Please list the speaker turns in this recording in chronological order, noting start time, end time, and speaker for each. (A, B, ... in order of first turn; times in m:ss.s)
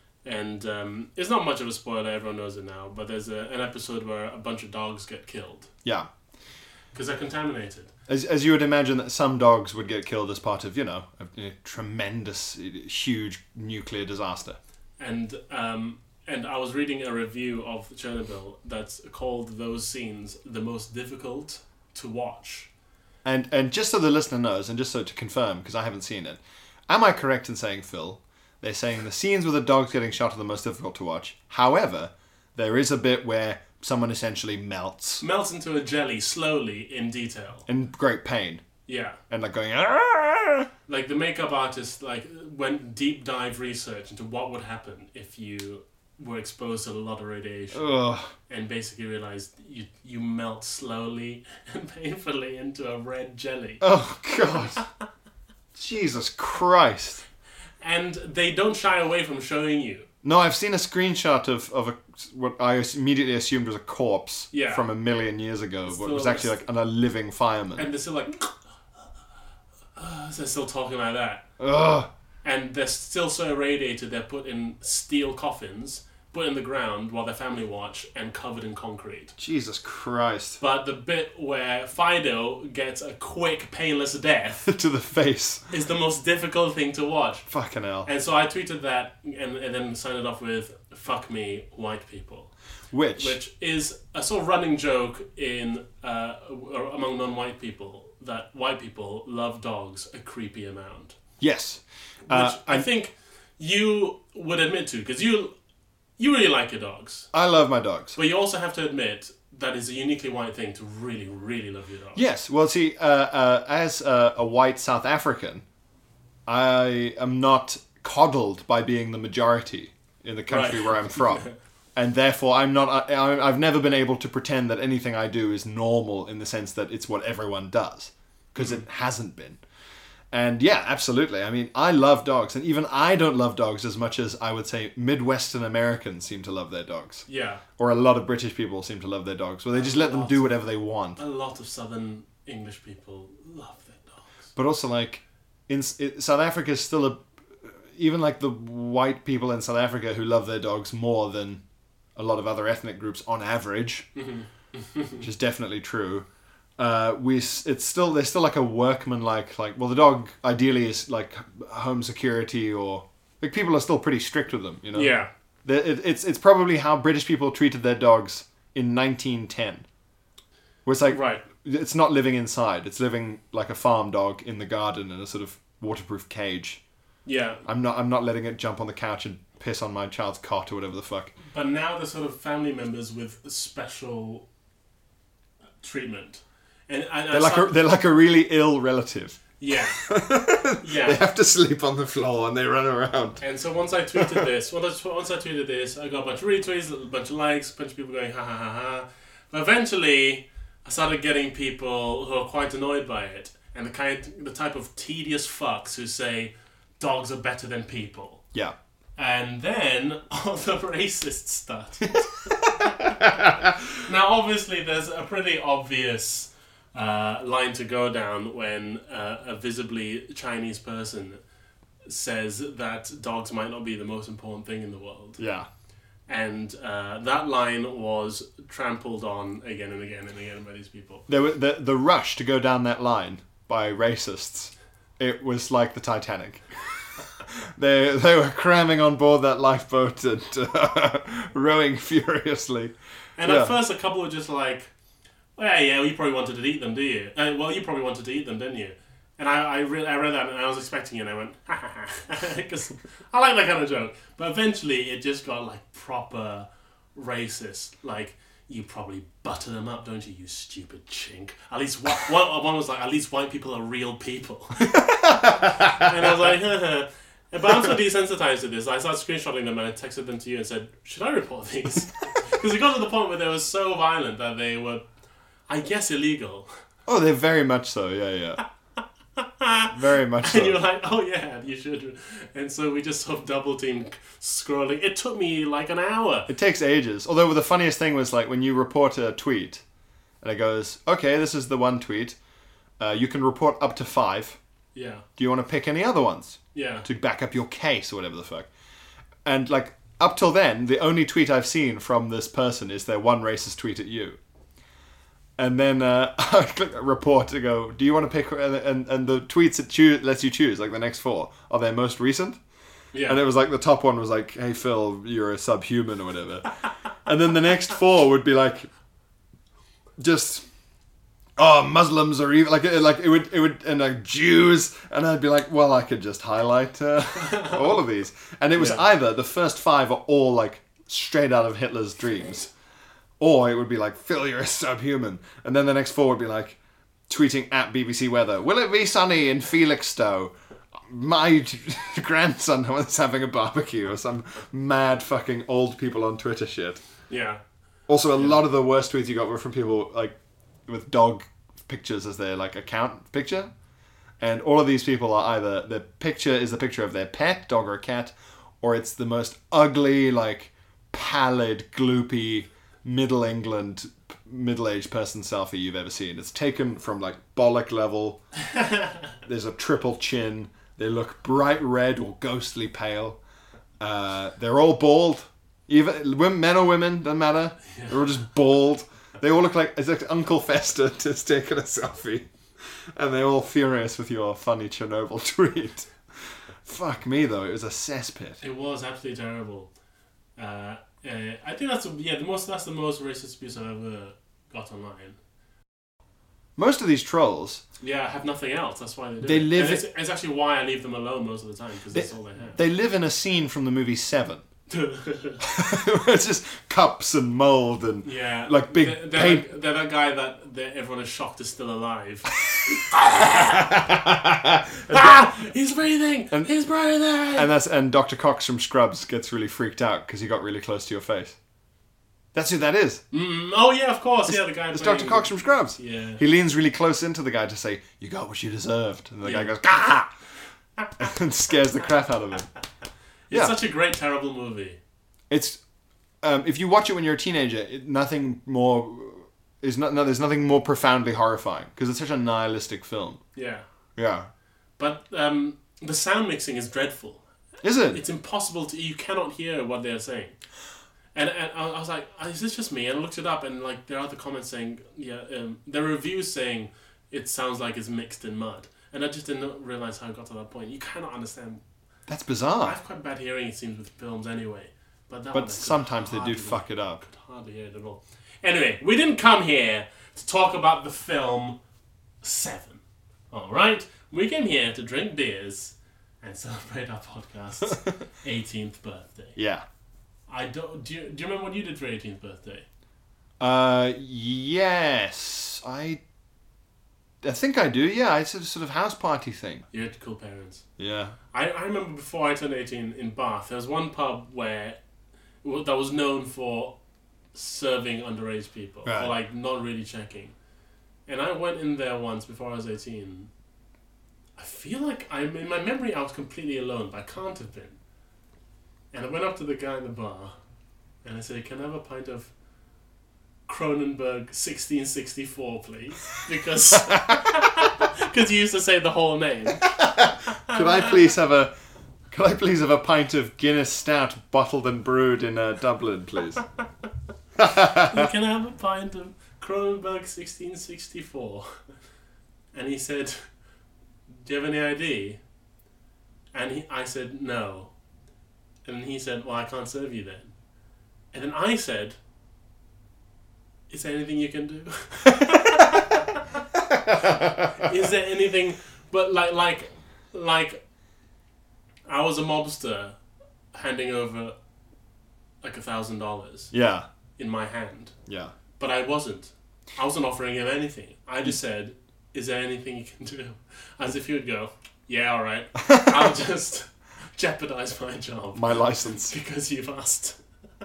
0:00.2-0:05.7 A
0:05.8-0:06.1 B
0:06.9-0:07.9 A
0:08.1-0:14.6 B
0:15.0-0:22.7 A
0:23.2-0:35.2 B
0:35.2-0:37.6 A
0:37.7-0:38.6 B
0:38.9-0:39.2 A
0:39.3-0:40.7 B
0:40.9-0:53.8 A
0:47.7-0:48.3 B
0:53.8-0:54.8 B
0:55.7-0:57.2 B
0:57.8-1:00.1 A
1:00.2-1:07.9 B
1:04.5-1:04.8 A
1:05.9-1:06.6 A
1:07.8-1:08.6 A
1:10.0-1:11.4 A
1:11.6-1:12.1 B
1:12.4-1:19.3 A
1:19.4-1:20.6 B
1:20.6-1:24.7 A
1:24.6-1:25.6 B
1:25.7-1:27.5 A
1:27.5-1:28.1 B
1:28.0-1:32.5 A
1:32.9-1:33.4 B
1:33.2-1:41.2 A
1:41.4-1:42.9 B
1:42.3-1:45.5 A
1:46.2-1:47.3 A
1:47.3-1:48.2 B
1:48.2-1:52.2 A
1:52.1-1:55.6 B
1:56.4-2:01.4 B
2:00.5-2:01.6 A
2:02.0-2:09.6 B
2:08.6-2:08.8 A
2:10.3-2:17.2 B
2:17.3-2:17.6 A
2:17.8-2:21.2 B
2:19.7-2:20.6 A
2:21.2-2:24.3 A
2:24.6-2:31.6 B
2:32.2-2:34.1 B
2:34.1-2:35.2 A
2:35.2-2:36.3 B
2:36.8-2:49.8 B
2:44.9-2:45.3 A
2:50.8-2:56.8 B
2:51.1-2:51.4 A
2:57.2-2:57.6 A
2:57.6-3:01.3 B
3:01.5-3:04.4 A
3:05.8-3:07.8 A
3:07.3-3:09.4 B
3:09.6-3:10.1 A
3:10.0-3:13.4 B
3:10.7-3:11.2 A
3:13.4-3:28.4 A
3:14.1-3:14.5 B
3:29.2-3:33.1 A
3:33.2-3:33.7 B
3:34.0-3:41.4 A
3:42.1-3:45.4 A
3:45.4-3:45.7 B
3:46.3-3:51.2 A
3:51.3-3:56.6 B
3:57.5-4:03.8 B
4:03.4-4:04.9 A
4:05.6-4:35.0 A
4:24.9-4:26.0 B
4:35.7-4:36.7 A
4:37.1-4:38.6 B
4:39.4-4:39.9 A
4:39.9-4:40.8 B
4:40.4-4:46.5 A
4:46.5-4:49.8 B
4:50.4-4:52.4 B
4:53.0-4:54.6 B
4:54.9-4:55.2 A
4:55.4-4:58.7 B
4:56.7-4:57.0 A
4:59.4-5:04.4 B
5:05.6-5:12.6 B
5:13.1-5:13.4 A
5:13.2-5:16.7 B
5:17.2-5:18.9 B
5:20.2-5:20.6 B
5:21.6-5:32.7 B
5:27.5-5:27.7 A
5:28.8-5:29.0 A
5:33.4-5:36.8 B
5:37.3-5:47.0 B
5:47.3-5:47.6 A
5:48.1-5:50.4 B
5:48.3-5:48.6 A
5:50.9-5:53.7 B
5:54.4-6:08.4 B
6:09.4-6:13.4 B
6:14.0-6:26.1 B
6:17.9-6:18.4 A
6:26.8-6:28.6 B
6:28.6-6:29.9 A
6:30.6-6:35.4 A
6:36.8-6:37.8 B
6:38.0-6:42.8 A
6:39.4-6:40.0 B
6:42.1-6:44.6 B
6:44.9-6:45.6 A
6:45.6-6:49.6 B
6:48.2-6:54.0 A
6:53.2-6:55.5 B
6:55.1-6:57.7 A
6:57.5-7:01.6 B
7:02.5-7:03.2 B
7:03.3-7:06.4 A
7:04.5-7:10.3 B
7:09.4-7:09.7 A
7:11.2-7:12.7 B
7:13.5-7:15.0 A
7:13.5-7:13.8 B
7:15.5-7:15.8 B
7:16.4-7:23.4 B
7:23.5-7:23.8 A
7:24.2-7:24.5 B
7:25.0-7:27.4 A
7:27.8-7:28.2 B
7:28.1-7:30.6 A
7:31.3-7:41.8 A
7:42.3-7:43.0 B
7:42.8-7:51.8 A
7:45.5-7:47.2 B
7:52.4-7:59.6 A
7:59.6-7:59.8 B
8:00.5-8:02.8 A
8:03.6-8:06.2 B
8:07.4-8:09.8 B
8:09.9-8:10.8 A
8:11.0-8:11.4 B
8:11.5-8:15.0 A
8:15.6-8:17.0 A
8:17.5-8:20.5 A
8:19.0-8:19.4 B
8:21.2-8:23.5 A
8:24.6-8:28.0 A
8:29.1-8:30.5 A
8:31.2-8:32.5 A
8:33.7-8:40.0 A
8:37.0-8:37.4 B
8:40.0-8:41.7 B
8:40.7-8:41.1 A
8:42.3-8:46.6 B
8:47.6-8:48.3 B
8:47.9-8:51.8 A
8:52.7-8:53.4 A
8:54.3-8:55.4 A
8:56.5-8:57.9 A
8:58.8-9:00.5 A
9:01.3-9:02.2 A
9:03.9-9:06.4 A
9:06.8-9:07.9 B
9:07.7-9:10.8 A
9:12.0-9:13.2 A
9:13.7-9:14.6 A
9:15.6-9:16.7 A
9:16.7-9:17.1 B
9:17.4-9:18.1 A
9:18.3-9:18.5 B
9:18.8-9:30.4 A
9:25.9-9:26.3 B
9:28.5-9:29.3 B